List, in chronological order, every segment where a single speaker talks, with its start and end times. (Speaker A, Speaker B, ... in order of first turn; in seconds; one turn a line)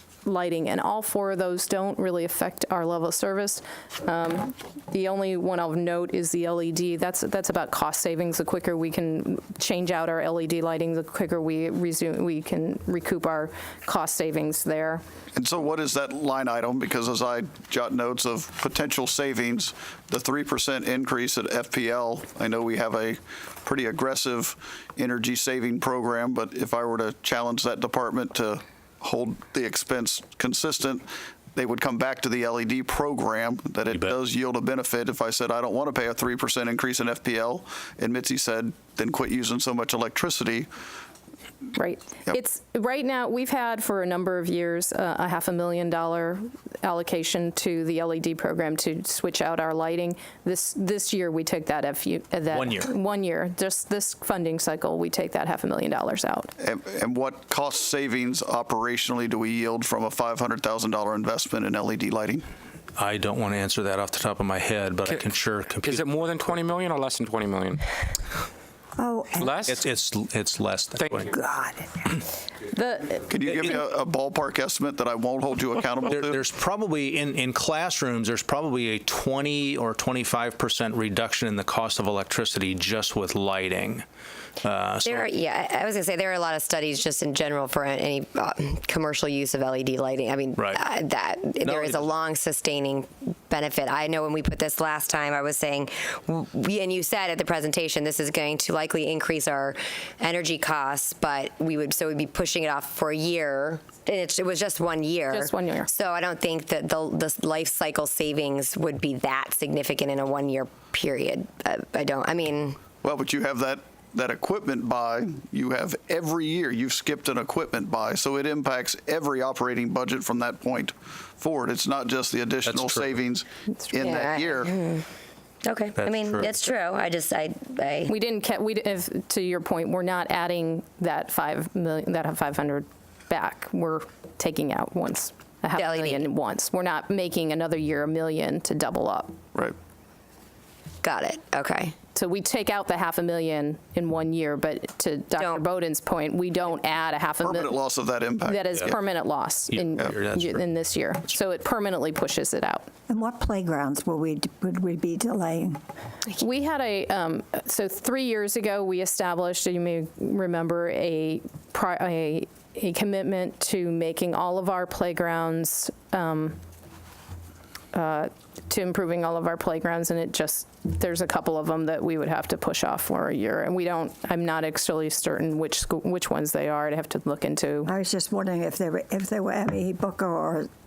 Speaker A: 0.2-15.0
Speaker B: 15.3-40.7
Speaker C: 33.9-34.2
Speaker A: 41.7-56.5
Speaker C: 52.5-52.9
Speaker B: 56.6-62.5
Speaker C: 63.0-66.6
Speaker D: 65.8-67.8
Speaker E: 69.0-69.5
Speaker D: 69.4-69.8
Speaker C: 69.7-71.3
Speaker D: 71.0-71.3
Speaker E: 71.4-71.9
Speaker A: 72.6-73.3
Speaker B: 73.3-76.4
Speaker C: 73.5-73.8
Speaker C: 76.0-84.0
Speaker C: 84.6-85.3
Speaker F: 85.0-112.9
Speaker C: 90.6-90.8
Speaker C: 91.6-92.1
Speaker A: 105.3-105.9
Speaker B: 113.0-124.7
Speaker C: 122.7-123.2
Speaker F: 124.0-125.0
Speaker F: 125.6-128.1
Speaker C: 126.0-126.5
Speaker A: 128.1-139.4
Speaker F: 135.7-136.2
Speaker F: 141.0-141.9
Speaker A: 142.1-147.8
Speaker F: 145.3-145.6
Speaker B: 147.4-148.9
Speaker A: 148.4-152.9
Speaker C: 149.7-150.6
Speaker E: 153.1-155.8
Speaker A: 156.3-166.6
Speaker A: 167.9-177.9
Speaker E: 177.8-180.7